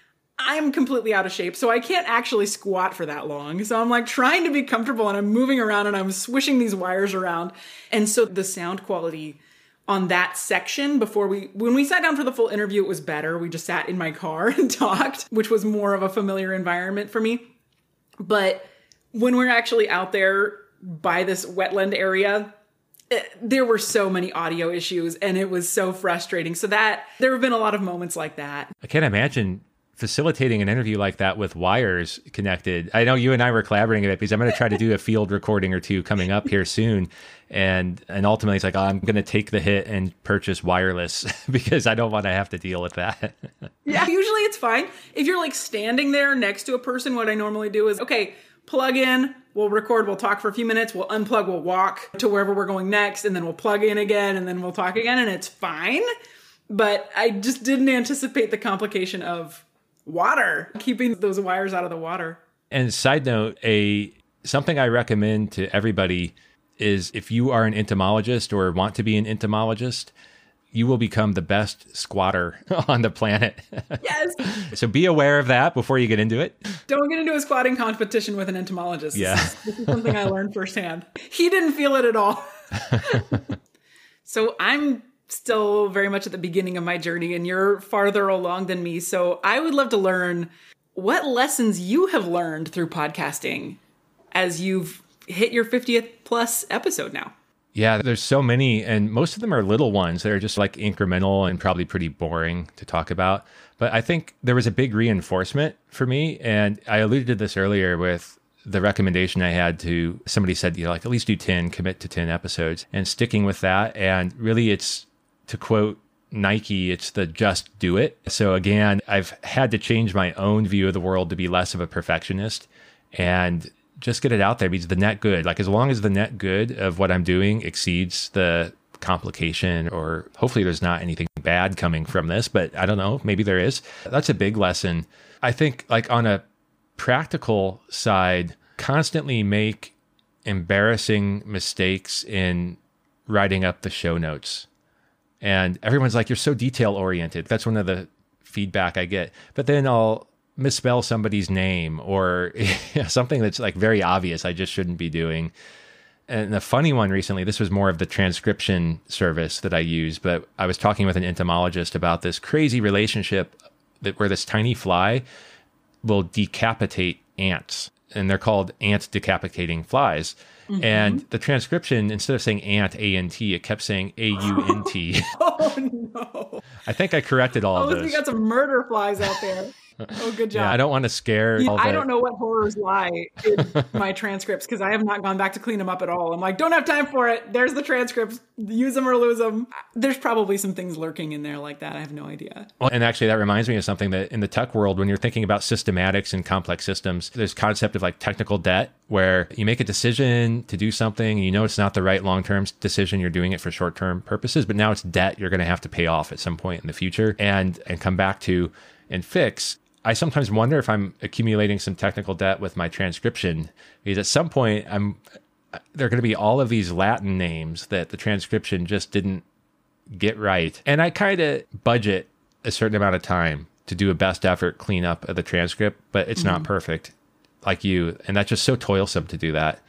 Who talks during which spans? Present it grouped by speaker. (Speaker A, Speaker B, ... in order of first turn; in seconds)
Speaker A: 0.4-17.5, 18.2-22.5, 23.1-28.7, 43.8-56.1, 56.7-62.4, 74.0-74.5, 76.9-83.5, 84.2-93.8, 94.3-97.3, 170.7-171.2, 174.5-176.7, 177.7-180.8, 181.6-192.7, 226.4-226.7
Speaker B: 28.8-43.5, 62.7-70.1, 70.7-76.7, 79.1-80.2, 97.7-136.4, 136.9-139.9, 140.4-144.7, 145.4-155.5, 156.3-165.2, 166.0-175.3, 176.8-178.2, 180.5-182.1, 192.8-215.2, 215.8-219.4, 220.1-229.8